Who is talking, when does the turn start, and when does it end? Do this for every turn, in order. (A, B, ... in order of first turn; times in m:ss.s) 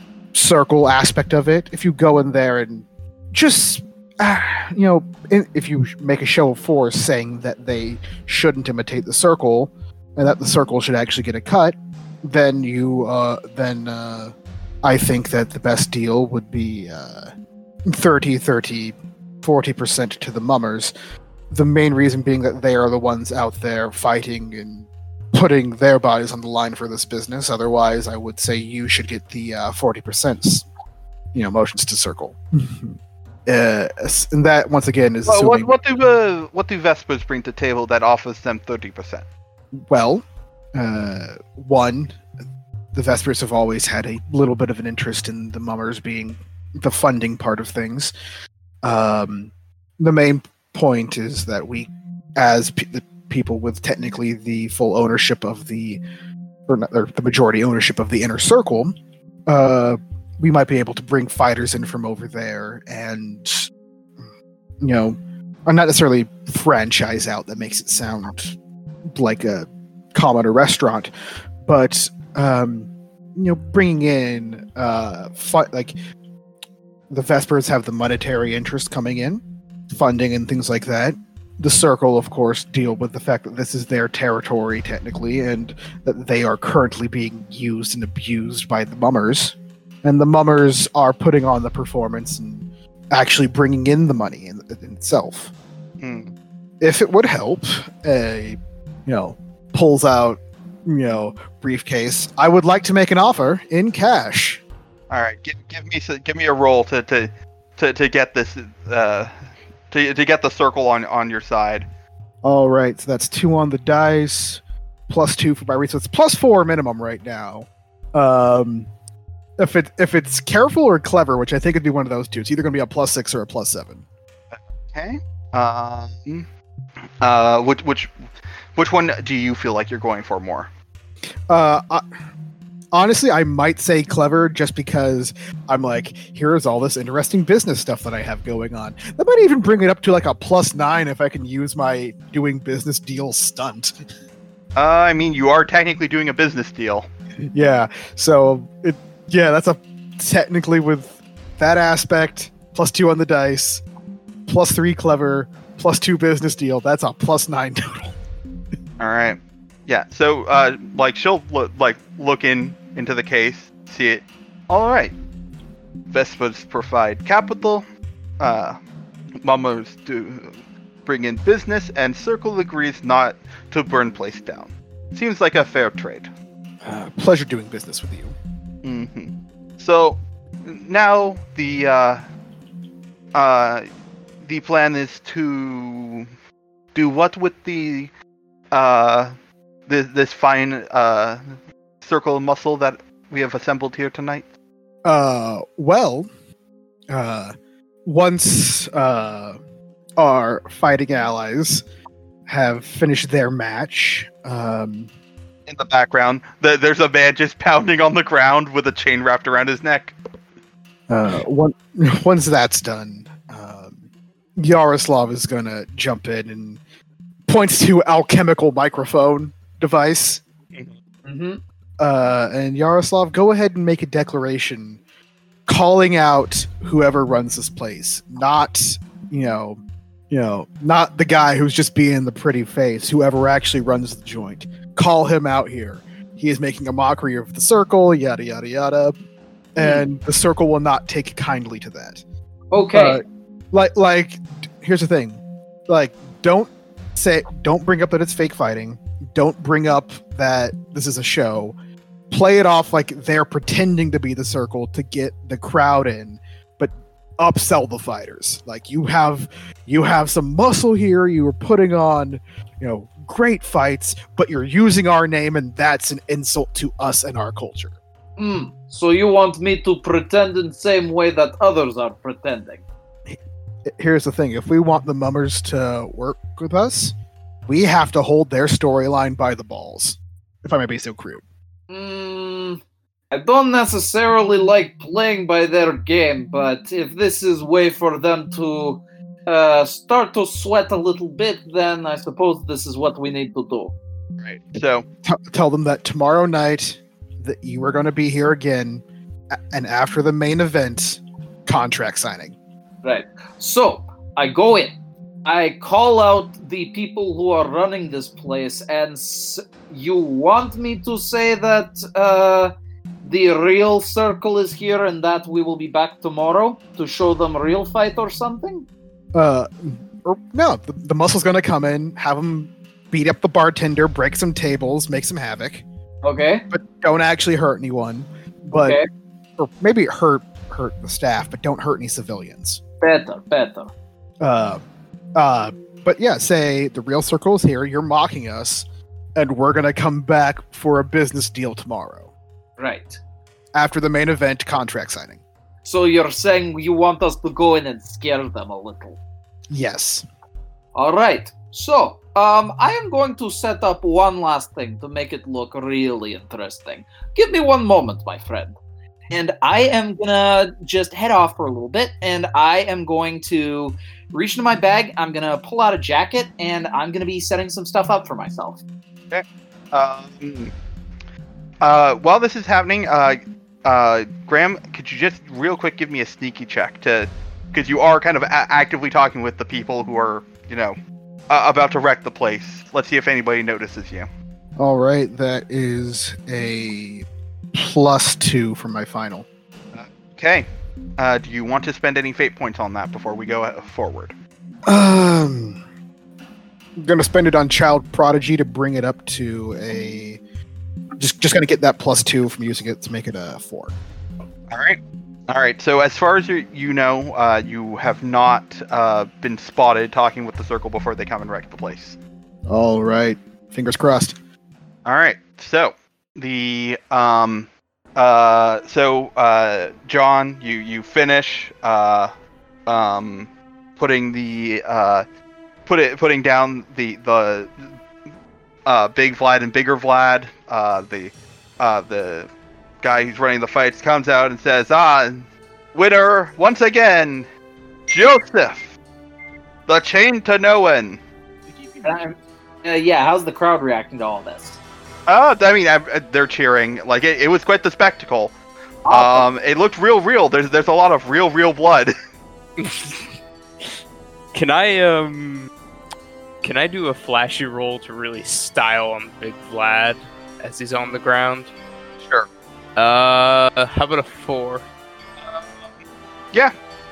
0:00.3-0:17.3 A
0:17.9-0:20.9 A
0:21.5-0:30.7 A
0:31.3-0:33.0 A
0:33.5-0:35.7 A
0:35.3-0:39.3 B
0:39.9-0:40.2 A
0:40.8-0:42.2 A
0:42.9-0:48.1 A
0:48.8-0:56.0 A
0:56.7-0:58.9 A
0:59.5-1:04.3 A
1:04.8-1:08.6 A
1:09.1-1:11.1 A
1:11.6-1:16.0 A
1:17.1-1:35.5 A
1:36.0-1:36.3 B
1:36.8-1:44.6 A
1:45.1-1:49.3 B
1:49.9-1:51.9 B
1:52.4-1:58.9 A
1:59.6-2:04.0 A
2:04.5-2:06.5 B
2:07.2-2:08.1 B
2:08.8-2:10.7 B
2:11.5-2:12.0 A
2:12.9-2:23.9 A
2:24.8-2:27.1 B
2:27.5-2:33.8 A
2:34.5-2:38.2 A
2:39.0-2:45.2 B
2:46.1-2:47.8 B
2:48.4-2:48.8 B
2:49.4-2:56.3 B
2:56.8-2:58.4 A
2:58.8-3:02.2 B
3:03.4-3:03.9 B
3:04.4-3:06.3 B
3:06.9-3:08.1 B
3:08.7-3:09.3 B
3:09.9-3:11.4 B
3:12.0-3:14.5 B
3:15.0-3:16.3 A
3:17.1-3:17.5 A
3:18.0-3:19.6 A
3:20.2-3:21.8 A
3:22.5-3:25.1 A
3:25.7-3:30.2 B
3:31.1-3:36.8 A
3:37.5-3:40.4 A
3:41.2-3:41.6 C
3:42.0-3:45.0 A
3:45.7-3:59.2 A
3:59.8-4:02.2 A
3:59.8-4:00.0 C
4:02.7-4:03.2 C
4:02.9-4:11.8 A
4:12.3-4:28.0 A
4:28.4-4:32.8 C
4:33.3-4:37.1 A
4:37.7-4:41.4 A
4:41.9-4:53.9 C
4:54.4-4:55.1 B
4:55.2-4:59.0 A
4:59.5-5:02.6 A
5:03.0-5:04.9 C
5:05.4-5:12.7 C
5:13.2-5:18.9 C
5:19.3-5:25.8 A
5:26.2-5:26.6 C
5:26.7-5:29.0 A
5:28.7-5:29.1 C
5:29.6-5:32.8 A
5:33.0-5:33.9 C
5:34.4-5:34.8 A
5:35.4-5:38.8 A
5:39.4-5:42.3 A
5:42.8-5:43.2 C
5:43.8-5:45.4 A
5:45.8-5:49.2 C
5:49.7-5:50.2 A
5:51.0-5:58.8 C
5:59.3-6:08.8 C
6:09.3-6:10.7 B
6:11.8-6:21.0 B
6:21.5-6:24.3 B
6:24.8-6:29.5 A
6:29.9-6:34.4 B
6:34.9-6:35.8 A
6:37.0-6:40.4 A
6:41.2-6:44.0 A
6:44.7-6:52.2 B
6:52.7-6:54.4 A
6:55.0-7:02.3 B
7:02.9-7:05.2 B
7:05.9-7:07.9 B
7:08.8-7:12.5 B
7:13.0-7:17.5 B
7:18.1-7:19.0 B
7:19.9-7:21.2 B
7:22.0-7:24.8 C
7:25.3-7:28.5 B
7:29.1-7:29.5 C
7:29.1-7:32.1 B
7:32.8-7:33.3 D
7:34.5-7:35.7 D
7:36.6-7:41.7 D
7:42.2-7:42.5 B
7:43.0-7:44.9 D